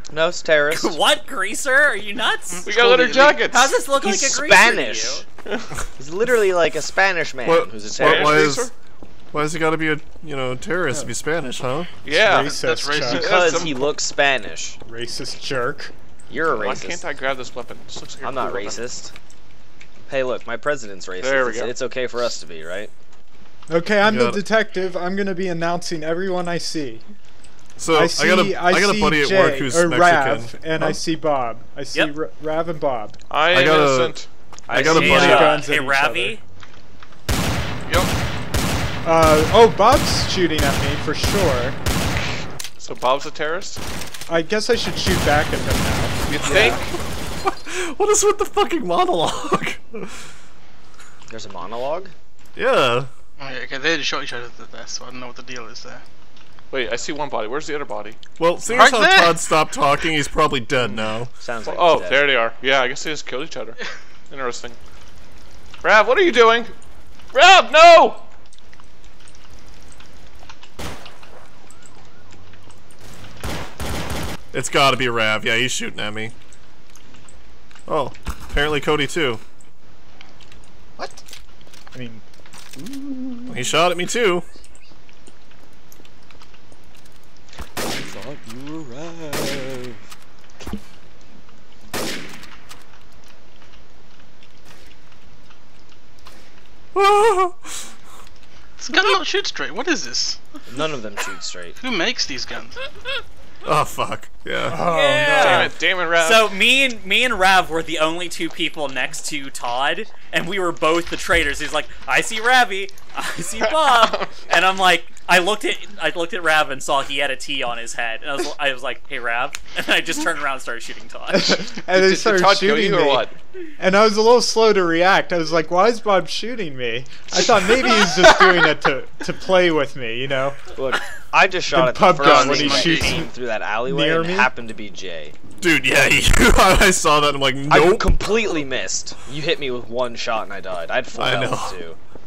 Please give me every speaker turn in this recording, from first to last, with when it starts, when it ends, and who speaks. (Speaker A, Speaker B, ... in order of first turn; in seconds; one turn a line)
Speaker A: 0.1-0.9
Speaker B: 0.7-2.6
Speaker C: 2.5-3.5
Speaker D: 2.6-3.8
Speaker B: 3.4-5.2
Speaker A: 4.0-5.2
Speaker A: 6.0-8.5
Speaker E: 7.4-8.7
Speaker D: 8.0-8.7
Speaker E: 9.3-11.9
Speaker D: 12.0-13.9
Speaker F: 12.1-13.2
Speaker C: 12.4-13.6
Speaker A: 13.1-14.8
Speaker F: 14.8-15.9
Speaker A: 16.3-17.0
Speaker D: 16.5-18.9
Speaker A: 18.2-19.1
Speaker A: 20.1-22.9
Speaker D: 21.2-21.7
Speaker F: 23.7-27.0
Speaker E: 24.0-24.4
Speaker E: 27.8-31.0
Speaker F: 27.9-33.2
Speaker D: 33.3-34.3
Speaker E: 33.5-35.7
Speaker F: 34.7-36.4
Speaker B: 34.7-36.4
Speaker F: 39.0-41.8
Speaker D: 42.8-43.8
Speaker F: 44.3-46.8
Speaker E: 46.3-46.9
Speaker D: 46.3-47.0
Speaker E: 47.4-50.2
Speaker A: 51.3-52.1
Speaker E: 52.5-53.1
Speaker C: 53.4-56.0
Speaker D: 56.7-58.2
Speaker E: 58.4-61.3
Speaker C: 58.6-59.5
Speaker A: 61.4-62.3
Speaker D: 61.6-63.8
Speaker D: 64.3-64.8
Speaker D: 65.8-66.7
Speaker D: 67.3-68.2
Speaker E: 74.5-76.3
Speaker E: 77.9-79.4
Speaker F: 81.9-82.2
Speaker A: 82.8-83.8
Speaker E: 83.5-84.4
Speaker A: 87.8-90.0
Speaker E: 96.9-97.9
Speaker C: 98.8-100.4
Speaker A: 100.7-101.8
Speaker C: 101.8-102.8
Speaker E: 103.6-104.8
Speaker F: 104.7-105.7
Speaker B: 104.7-121.6
Speaker D: 105.4-106.5
Speaker D: 113.9-114.2
Speaker F: 121.3-123.2
Speaker D: 121.9-123.4
Speaker F: 123.8-130.6
Speaker D: 127.8-128.7
Speaker A: 130.7-135.3
Speaker F: 131.7-133.3
Speaker C: 132.2-133.1
Speaker F: 133.8-134.5
Speaker E: 135.6-138.2
Speaker A: 137.7-142.0
Speaker E: 141.2-141.8